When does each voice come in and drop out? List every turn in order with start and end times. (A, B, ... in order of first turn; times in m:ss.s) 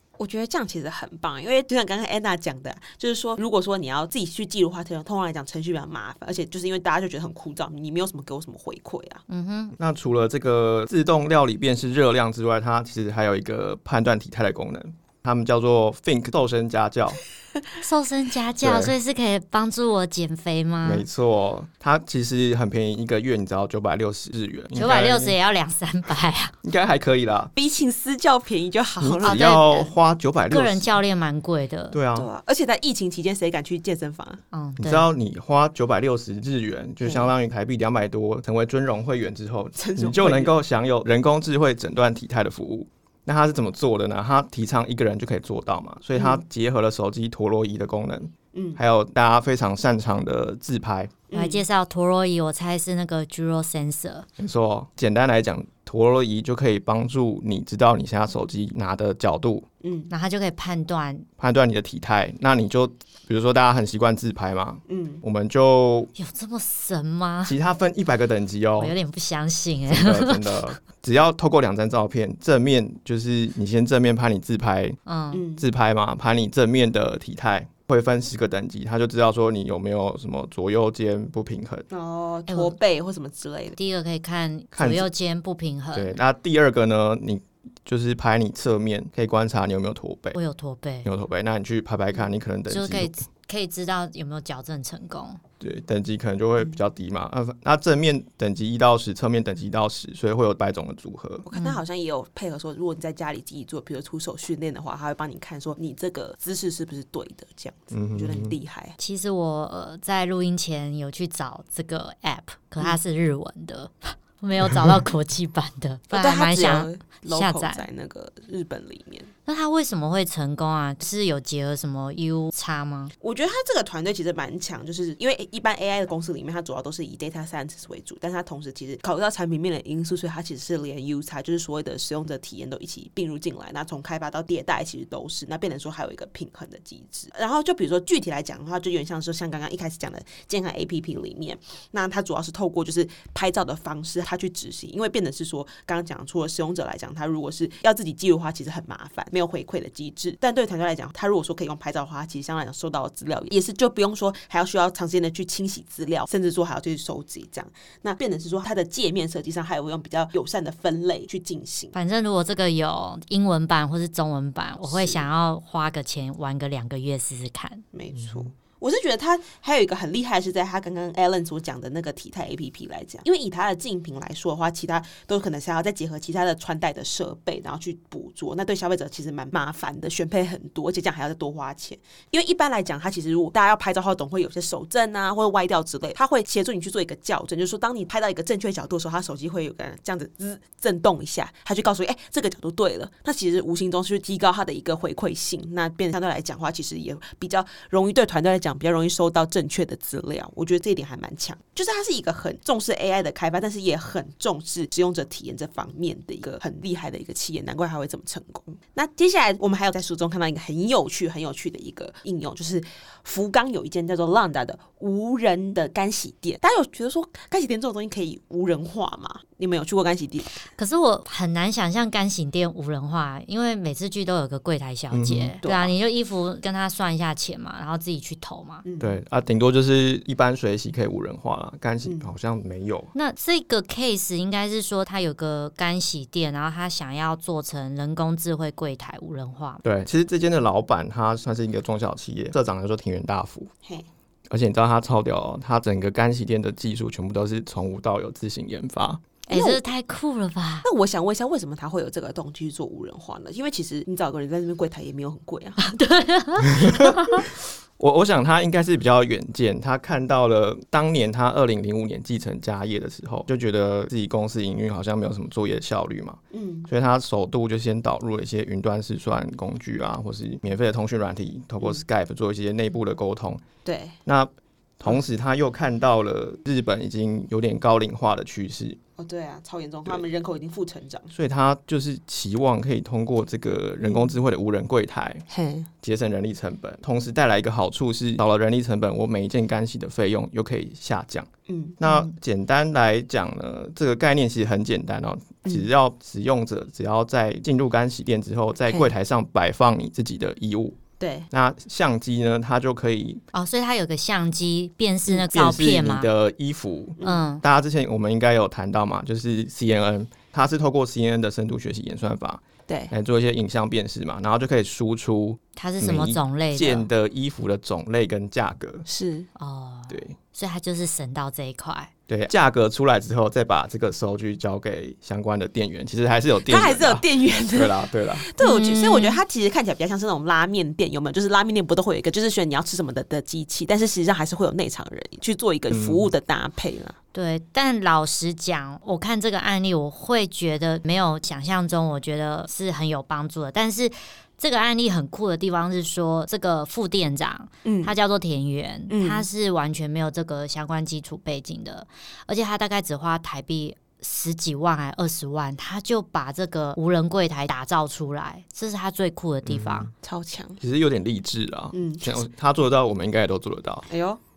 0:00.2-0:09.2 A
0:09.3-0:09.7 B
0:09.8-0:17.2 C
0:17.8-0:21.0 B
0:18.6-0:18.9 C
0:20.8-0:25.3 C
0:24.7-0:26.5 B
0:26.6-0:27.5 C
0:27.5-0:29.9 A
0:29.0-0:30.9 C
0:29.2-0:29.6 B
0:30.5-0:32.0 B
0:31.9-0:32.3 C
0:32.1-0:34.4 A
0:34.5-0:35.1 B
0:34.8-0:51.2 C
0:37.0-0:37.3 A
0:39.8-0:40.5 A
0:46.2-0:46.4 A
0:48.5-0:48.8 A
0:51.3-0:51.6 A
0:51.3-0:54.3 B
0:54.4-0:59.6 C
0:59.8-1:00.1 A
1:00.1-1:01.3 B
1:01.4-1:06.1 C
1:04.9-1:05.2 A
1:06.1-1:07.6 B
1:07.4-1:08.9 C
1:08.8-1:10.4 B
1:09.9-1:15.0 C
1:15.0-1:15.4 B
1:15.3-1:15.6 A
1:15.6-1:21.8 C
1:21.9-1:23.8 A
1:22.5-1:22.8 B
1:23.8-1:26.2 B
1:24.7-1:25.1 C
1:25.9-1:30.4 C
1:30.3-1:31.1 B
1:31.0-1:33.1 C
1:32.7-1:35.4 B
1:35.6-1:41.4 C
1:41.4-1:49.0 A
1:41.5-1:41.8 B
1:47.9-1:48.5 C
1:49.0-1:57.8 B
1:56.1-1:59.3 A
1:59.4-2:03.1 B
2:03.2-2:41.9 A
2:41.9-2:47.8 B
2:44.8-2:45.2 A
2:47.9-3:40.6 A
2:48.2-2:48.5 C
3:40.8-3:48.8 B
3:45.1-3:45.6 C
3:45.6-3:45.9 A
3:48.8-3:49.2 A
3:49.0-3:53.1 C
3:52.0-3:52.3 A
3:53.1-3:59.8 B
3:59.8-4:03.7 C
4:04.5-4:09.2 C
4:09.5-4:10.9 B
4:09.5-4:09.8 A
4:10.8-4:15.8 A
4:15.8-4:17.4 B
4:16.6-4:17.2 C
4:18.0-4:33.6 C
4:26.5-4:26.9 A
4:33.8-4:34.2 A
4:34.2-4:39.0 C
4:39.2-4:41.3 A
4:41.3-4:45.4 C
4:44.0-4:44.4 A
4:45.5-4:45.9 A
4:46.0-5:01.0 C
4:51.7-4:52.0 A
4:52.0-4:52.3 B
5:01.2-5:01.5 A
5:01.5-5:03.4 C
5:03.5-5:06.3 B
5:05.3-5:19.0 C
5:07.2-5:07.4 A
5:07.2-5:07.6 B
5:12.9-5:13.1 A
5:15.8-5:17.0 B
5:19.1-5:19.5 A
5:19.6-5:22.1 B
5:20.1-5:20.4 C
5:22.3-5:28.4 C
5:26.6-5:37.2 A
5:28.6-5:29.4 B
5:35.9-5:36.3 C
5:37.3-6:00.1 B
5:47.8-5:48.1 A
5:49.1-5:49.4 A
5:59.6-6:00.1 C
6:00.2-6:00.8 A
6:00.8-6:04.0 C
6:01.9-6:02.4 A
6:04.1-6:04.4 A